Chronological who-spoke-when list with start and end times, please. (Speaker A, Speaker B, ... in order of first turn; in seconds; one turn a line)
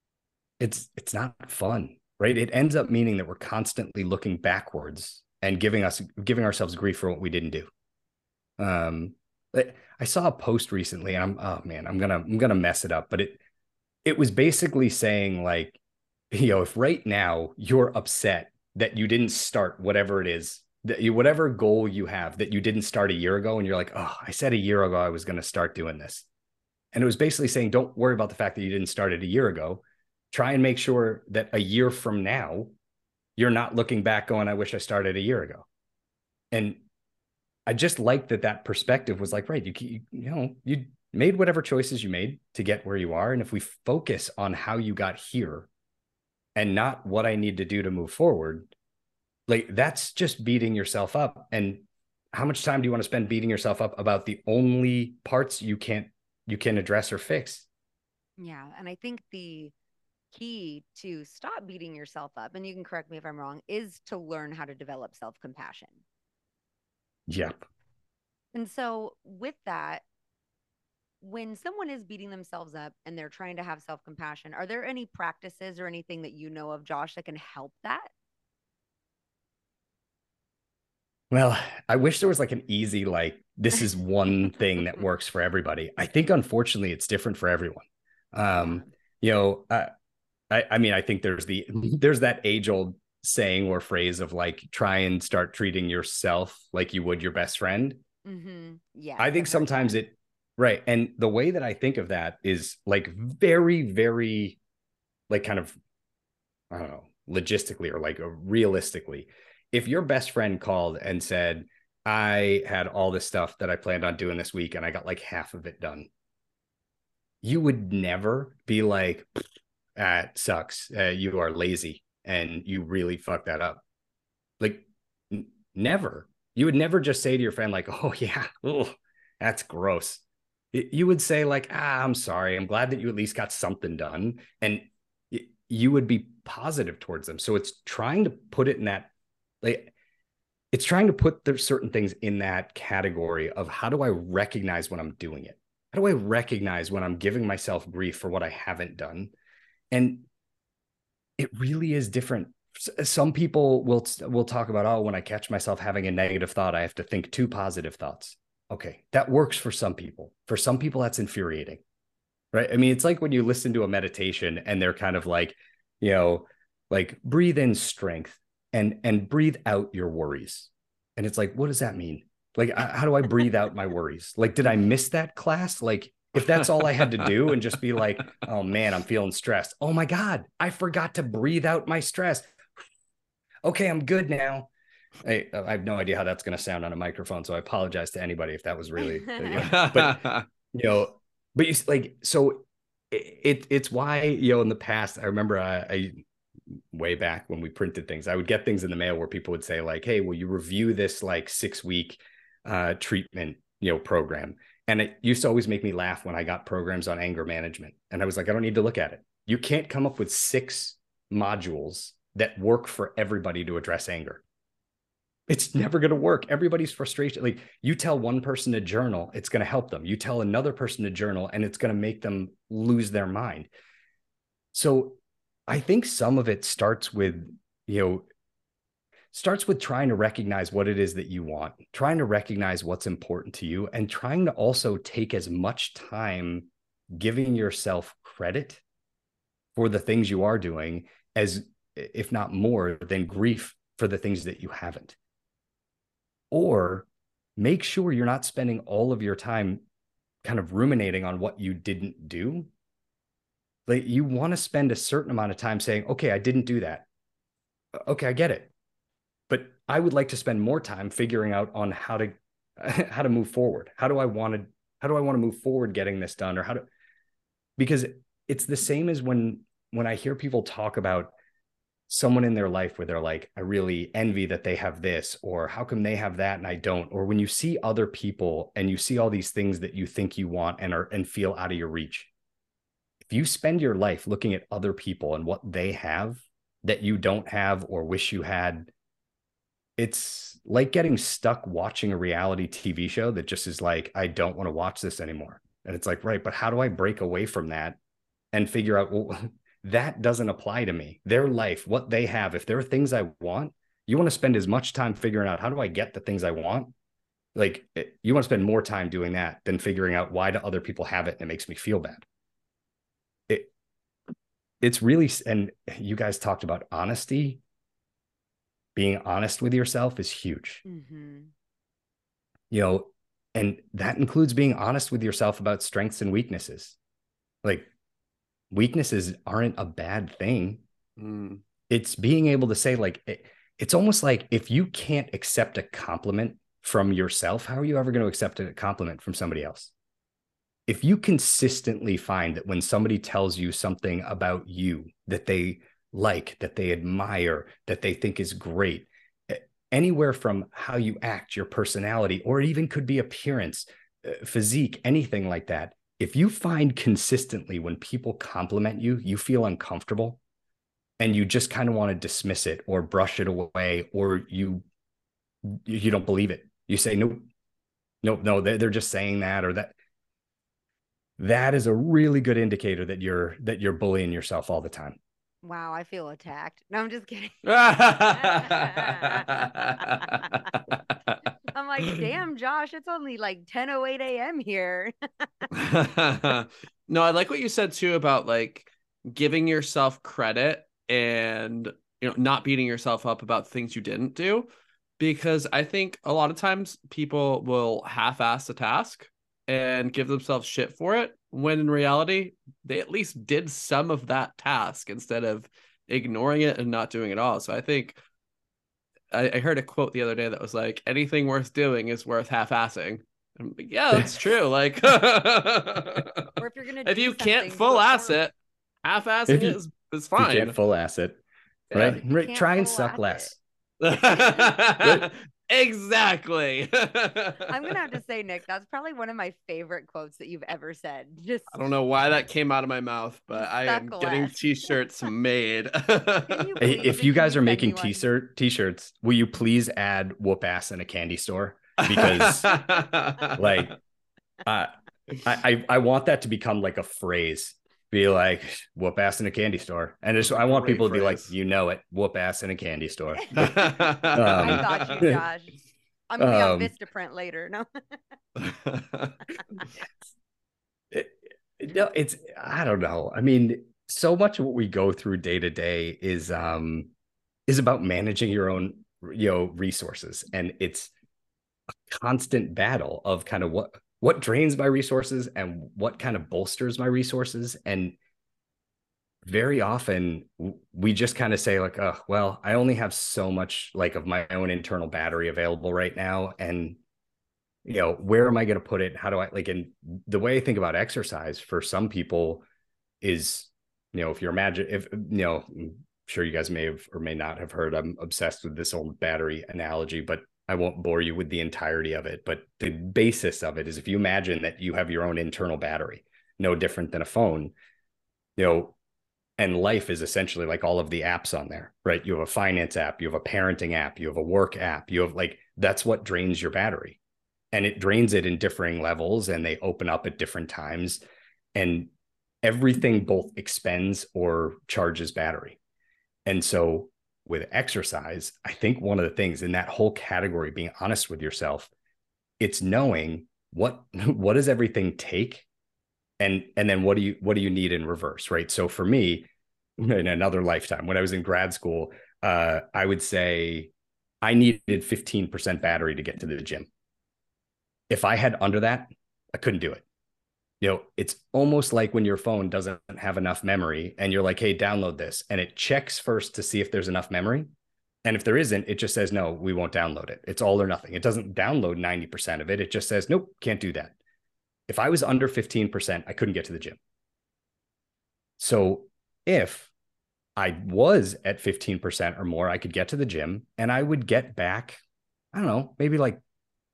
Speaker A: 0.6-7.7
Speaker A: 8.6-13.4
Speaker A: 14.1-15.8
Speaker A: 16.3-26.3
Speaker A: 26.9-32.7
Speaker A: 33.4-35.7
Speaker A: 36.5-36.8
Speaker A: 37.7-45.7
Speaker A: 46.6-48.7
Speaker A: 49.5-57.7
Speaker B: 58.4-59.7
Speaker B: 60.3-66.0
Speaker A: 67.3-67.6
Speaker B: 68.5-70.0
Speaker B: 71.2-78.1
Speaker A: 81.3-89.9
Speaker B: 88.6-88.9
Speaker A: 90.5-98.0
Speaker B: 98.2-100.0
Speaker A: 99.2-104.6
Speaker A: 105.3-105.8
Speaker A: 106.7-116.1
Speaker A: 117.4-119.3
Speaker A: 120.0-123.8
Speaker A: 124.6-130.2
Speaker A: 130.7-139.1
Speaker A: 139.6-139.9
Speaker A: 140.7-149.3
Speaker A: 149.9-150.3
Speaker A: 151.4-161.8
Speaker A: 162.5-182.5
Speaker C: 176.8-177.3
Speaker A: 183.7-184.7
Speaker A: 185.2-214.4
Speaker C: 189.6-190.4
Speaker A: 215.5-223.7
Speaker A: 224.7-228.3
Speaker A: 229.3-238.8
Speaker A: 239.8-245.2
Speaker A: 246.5-249.8
Speaker A: 250.4-252.7
Speaker A: 253.9-257.1
Speaker A: 257.9-258.7
Speaker A: 259.5-266.9
Speaker A: 267.8-271.4
Speaker A: 272.1-282.3
Speaker A: 283.2-288.9
Speaker A: 290.0-298.0
Speaker A: 298.5-306.9
Speaker A: 307.6-312.2
Speaker A: 314.8-317.6
Speaker A: 319.0-320.8
Speaker B: 320.9-321.5
Speaker A: 322.7-327.0
Speaker A: 327.6-327.9
Speaker A: 328.7-330.8
Speaker C: 331.2-331.6
Speaker A: 331.9-339.9
Speaker A: 340.9-360.4
Speaker A: 361.2-364.9
Speaker A: 365.6-367.4
Speaker A: 368.2-369.9
Speaker A: 371.4-375.2
Speaker B: 375.6-380.7
Speaker C: 377.6-381.4
Speaker B: 381.7-385.7
Speaker C: 385.7-394.7
Speaker C: 395.2-408.2
Speaker C: 409.3-416.5
Speaker A: 414.1-414.4
Speaker B: 416.6-418.4
Speaker C: 417.1-420.8
Speaker A: 419.5-419.8
Speaker A: 420.4-421.4
Speaker C: 421.9-422.2
Speaker A: 421.9-423.6
Speaker B: 422.0-423.6
Speaker C: 424.0-428.1
Speaker A: 425.0-425.3
Speaker B: 427.7-431.9
Speaker C: 431.7-436.7
Speaker B: 433.5-434.5
Speaker B: 436.5-438.3
Speaker A: 436.8-442.8
Speaker C: 442.0-443.9
Speaker A: 443.6-444.0
Speaker A: 444.6-455.4
Speaker C: 450.4-451.5
Speaker C: 453.6-455.2
Speaker B: 453.6-453.9
Speaker B: 454.5-455.8
Speaker B: 456.3-458.2
Speaker A: 456.4-456.9
Speaker C: 458.6-459.4
Speaker A: 461.1-467.1
Speaker A: 467.7-471.1
Speaker A: 472.1-478.2
Speaker A: 479.4-487.0
Speaker A: 487.9-492.6
Speaker A: 493.2-507.7
Speaker A: 508.6-508.9
Speaker A: 509.6-517.2
Speaker A: 517.7-521.2
Speaker A: 521.8-522.1
Speaker A: 522.6-525.8
Speaker A: 526.5-531.9
Speaker A: 532.6-535.7
Speaker A: 536.4-543.9
Speaker A: 544.4-546.9
Speaker A: 548.1-550.0
Speaker A: 550.8-557.7
Speaker A: 558.2-564.1
Speaker A: 564.9-567.0
Speaker A: 568.6-569.9
Speaker A: 570.6-575.0
Speaker A: 575.5-576.4